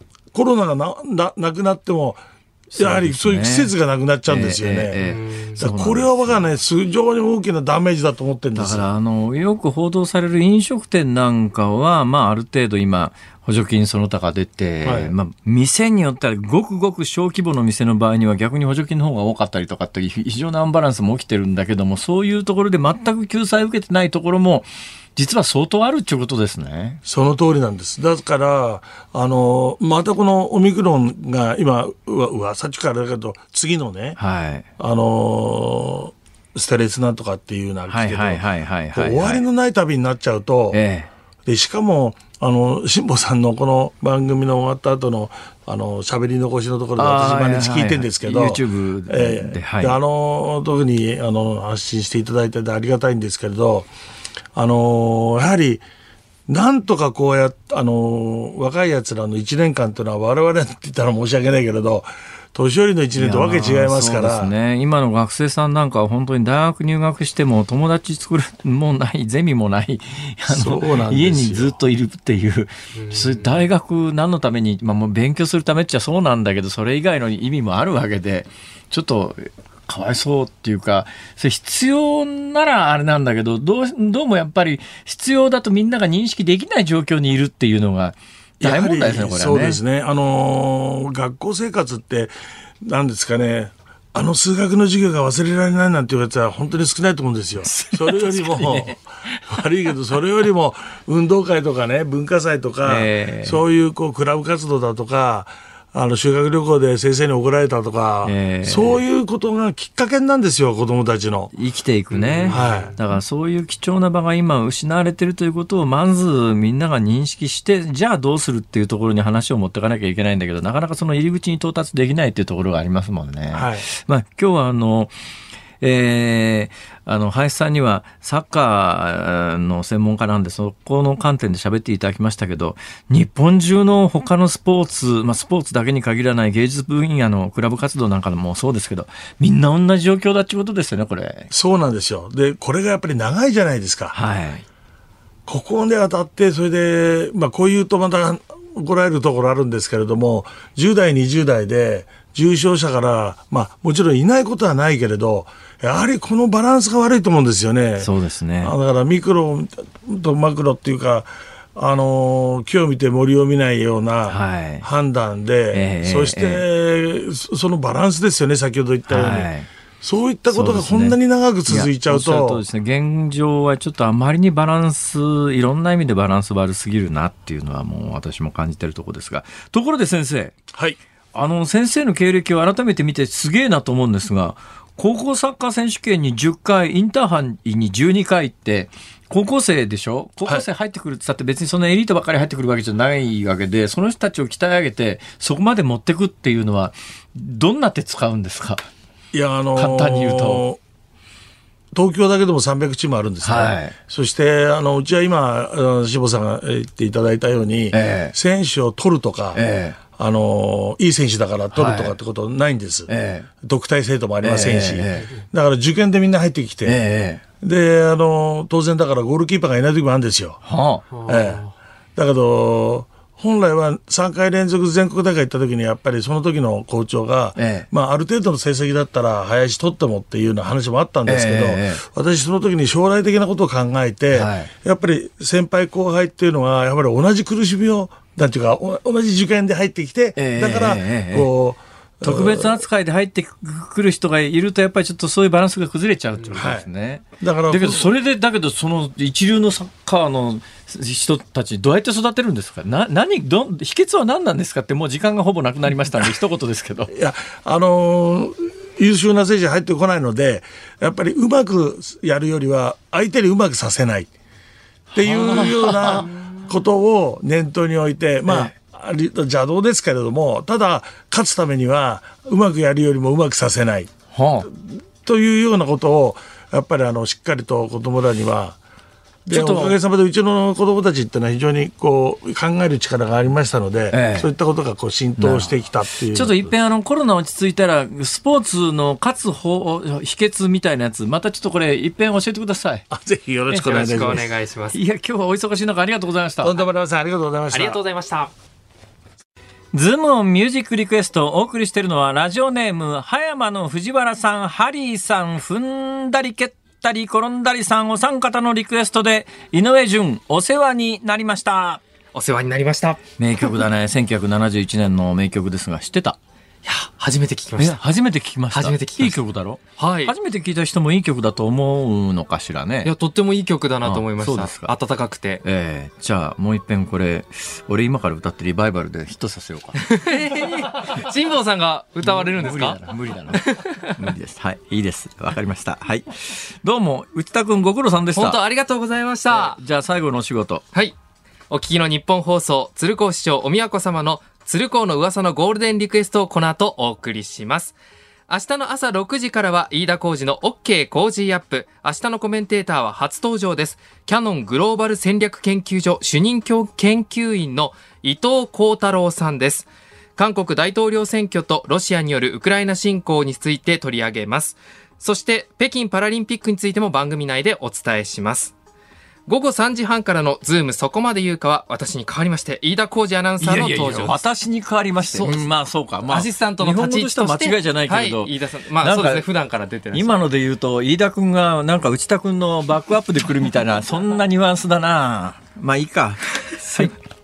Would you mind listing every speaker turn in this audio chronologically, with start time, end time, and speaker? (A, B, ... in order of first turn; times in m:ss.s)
0:00.3-0:05.0 A
0:02.7-0:03.7 B
0:04.3-0:06.4 B
0:05.0-0:05.6 C
0:05.6-0:08.9 A
0:08.6-0:27.0 B
0:14.8-0:15.1 A
0:27.0-0:34.2 A
0:34.2-0:34.7 B
0:34.8-0:40.8 A
0:37.9-0:39.4 B
0:40.7-0:41.1 B
0:41.5-0:53.9 A
0:47.0-0:50.0 B
0:54.5-0:55.8 A
0:56.5-1:04.5 A
1:03.2-1:29.8 B
1:10.5-1:11.7 A
1:28.6-1:51.5 A
1:37.6-1:39.4 B
1:42.8-1:43.6 B
1:48.2-1:49.0 B
1:51.5-2:05.1 B
1:52.1-1:52.9 C
1:52.5-1:52.9 A
2:03.5-2:03.9 A
2:05.8-2:21.5 B
2:21.5-2:24.2 A
2:24.1-2:24.6 B
2:25.5-2:49.5 A
2:38.0-2:38.7 B
2:44.3-2:44.9 B
2:45.7-2:46.6 B
2:49.1-2:49.7 B
2:50.0-2:52.6 A
2:50.5-3:00.6 B
3:00.7-3:01.0 A
3:01.3-3:18.9 B
3:19.3-3:20.8 A
3:19.8-3:20.6 B
3:21.9-3:37.0 A
3:23.4-3:24.0 B
3:27.9-3:28.3 B
3:29.5-3:30.0 B
3:31.7-3:32.2 B
3:33.1-3:33.5 B
3:34.4-3:35.3 B
3:36.8-3:37.4 B
3:37.6-3:40.6 A
3:40.6-3:41.2 B
3:41.2-4:02.8 A
3:47.6-3:47.9 B
3:51.2-3:52.0 B
3:54.3-3:54.7 B
4:00.4-4:01.5 B
4:02.2-4:17.1 B
4:06.5-4:06.9 A
4:07.4-4:08.1 A
4:17.1-4:24.3 A
4:25.1-4:34.1 A
4:25.2-4:26.3 B
4:28.5-4:28.7 B
4:34.3-4:34.7 B
4:34.6-4:38.8 A
4:39.5-4:46.7 A
4:39.5-4:40.0 B
4:44.1-4:44.5 B
4:45.4-4:45.7 B
4:46.3-4:53.0 B
4:53.1-4:54.4 A
4:53.7-4:55.0 C
4:53.8-4:54.4 B
4:54.9-4:56.8 B
4:56.6-4:58.0 A
4:57.7-4:58.5 C
4:59.9-5:12.0 B
5:12.3-5:13.2 C
5:13.4-5:16.4 B
5:16.8-5:18.0 C
5:17.8-5:23.1 B
5:18.7-5:19.4 C
5:20.0-5:20.3 C
5:23.0-5:25.6 C
5:24.0-5:24.9 B
5:25.6-5:31.1 B
5:30.0-5:33.0 C
5:32.2-5:38.6 B
5:33.5-5:34.2 C
5:38.3-5:39.8 C
5:39.5-5:40.8 B
5:41.7-5:48.0 C
5:48.5-6:08.7 C
6:09.5-6:14.4 C
6:13.6-6:19.4 B
6:15.2-6:15.7 C
6:16.3-6:20.4 C
6:20.1-6:27.1 B
6:26.7-6:27.2 C